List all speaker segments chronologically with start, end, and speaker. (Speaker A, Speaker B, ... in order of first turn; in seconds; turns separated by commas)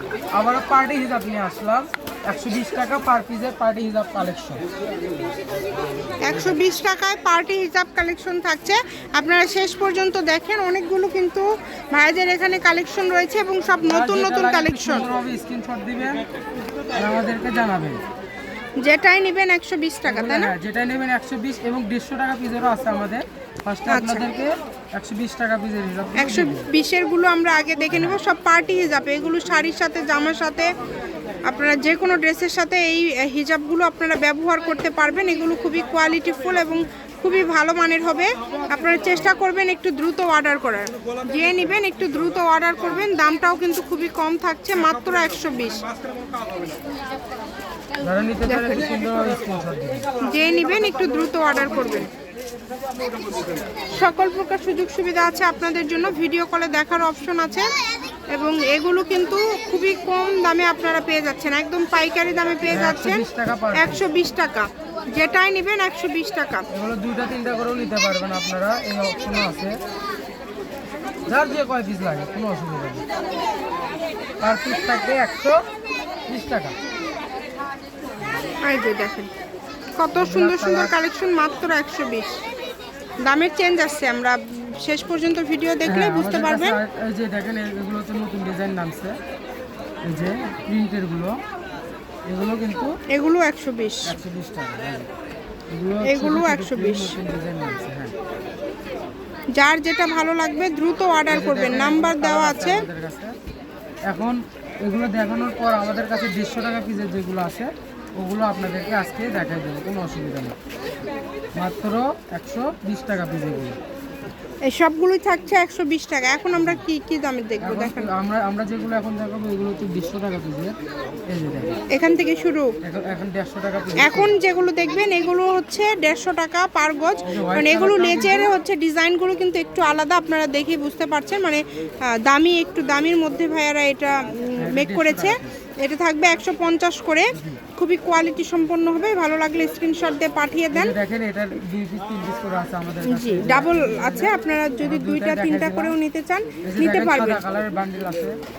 Speaker A: 0.3-4.6, Speaker B: 6.2-15.1, Speaker A: 13.8-16.2, Speaker A: 16.9-18.0, Speaker B: 18.8-20.5, Speaker A: 20.1-26.7, Speaker B: 23.9-24.2, Speaker B: 26.2-30.7, Speaker A: 27.9-28.2, Speaker B: 31.5-45.8, Speaker A: 48.0-50.0, Speaker B: 48.5-48.9, Speaker B: 50.2-52.1, Speaker B: 53.9-57.7, Speaker B: 58.3-66.7, Speaker A: 62.7-64.0, Speaker A: 66.7-69.8, Speaker A: 71.3-73.0, Speaker A: 74.4-75.6, Speaker A: 76.3-76.7, Speaker B: 78.6-79.3, Speaker B: 80.0-82.4, Speaker A: 80.2-80.9, Speaker B: 83.2-86.8, Speaker A: 85.8-89.1, Speaker A: 90.1-91.3, Speaker A: 92.3-92.9, Speaker B: 93.1-94.1, Speaker A: 94.0-95.1, Speaker A: 95.7-98.1, Speaker B: 96.0-97.1, Speaker B: 99.5-102.8, Speaker A: 101.3-103.3, Speaker A: 104.1-110.5, Speaker A: 111.5-113.8, Speaker B: 114.7-118.1, Speaker A: 116.5-116.8, Speaker A: 117.6-120.8, Speaker A: 121.3-121.8, Speaker B: 121.9-122.7, Speaker A: 122.8-124.4, Speaker B: 124.0-140.9, Speaker A: 127.2-128.5, Speaker A: 134.6-135.5, Speaker A: 137.3-137.6, Speaker A: 140.7-145.9, Speaker B: 143.1-147.4, Speaker A: 146.6-148.4